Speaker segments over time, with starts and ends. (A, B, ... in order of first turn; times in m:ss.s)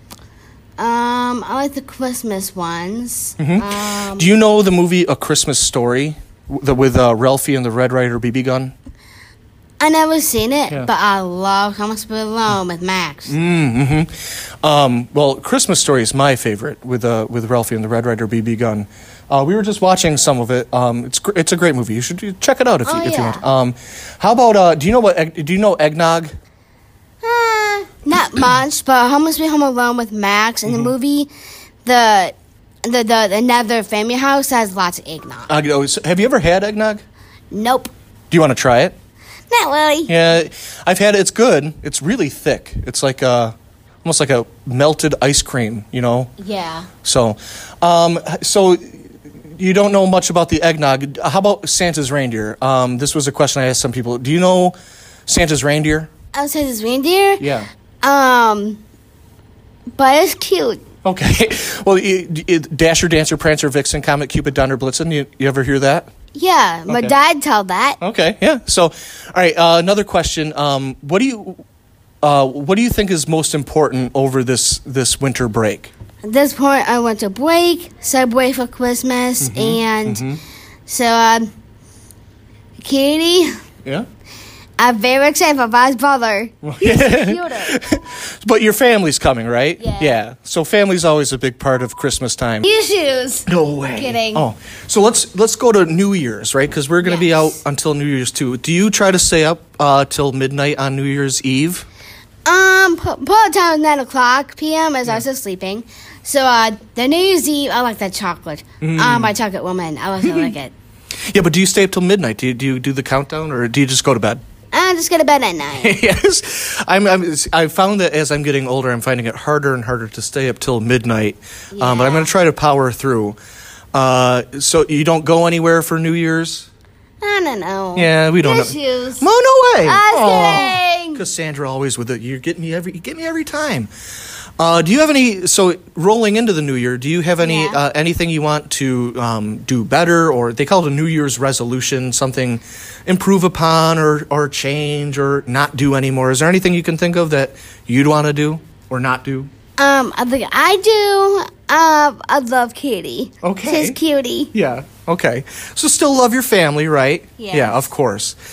0:00.8-0:04.3 A
0:03.4-0:08.7 B
0:09.8-0:13.3 A
0:13.3-0:26.3 B
0:22.8-0:23.4 A
0:27.2-0:31.3 A
0:30.6-0:30.9 B
0:31.8-0:35.5 A
0:35.5-0:37.0 B
0:37.5-0:37.9 A
0:38.3-0:38.9 B
0:39.5-0:40.1 A
0:40.0-0:46.3 B
0:46.4-0:46.9 A
0:47.0-0:54.7 B
0:55.3-0:56.1 B
0:56.3-0:57.5 A
0:57.4-0:57.7 B
0:58.0-0:58.8 A
0:59.9-1:00.8 A
1:01.0-1:06.1 B
1:06.3-1:08.0 A
1:08.0-1:11.6 B
1:12.2-1:15.9 B
1:16.2-1:20.2 A
1:19.4-1:20.4 B
1:20.9-1:21.5 A
1:22.8-1:23.5 A
1:24.8-1:27.7 A
1:26.6-1:32.6 B
1:29.8-1:30.2 A
1:32.6-1:34.4 A
1:33.5-1:41.8 B
1:37.0-1:37.6 A
1:42.4-1:50.7 A
1:48.8-1:49.4 B
1:50.2-1:50.5 B
1:51.3-1:54.4 B
1:54.7-1:56.0 A
1:55.8-2:03.4 B
2:01.7-2:02.3 A
2:03.9-2:06.7 B
2:07.2-2:09.2 A
2:07.9-2:13.9 B
2:09.8-2:11.2 A
2:14.6-2:29.5 B
2:17.4-2:17.8 A
2:29.8-2:34.5 A
2:33.4-2:34.0 B
2:34.5-2:38.4 B
2:37.4-2:37.9 A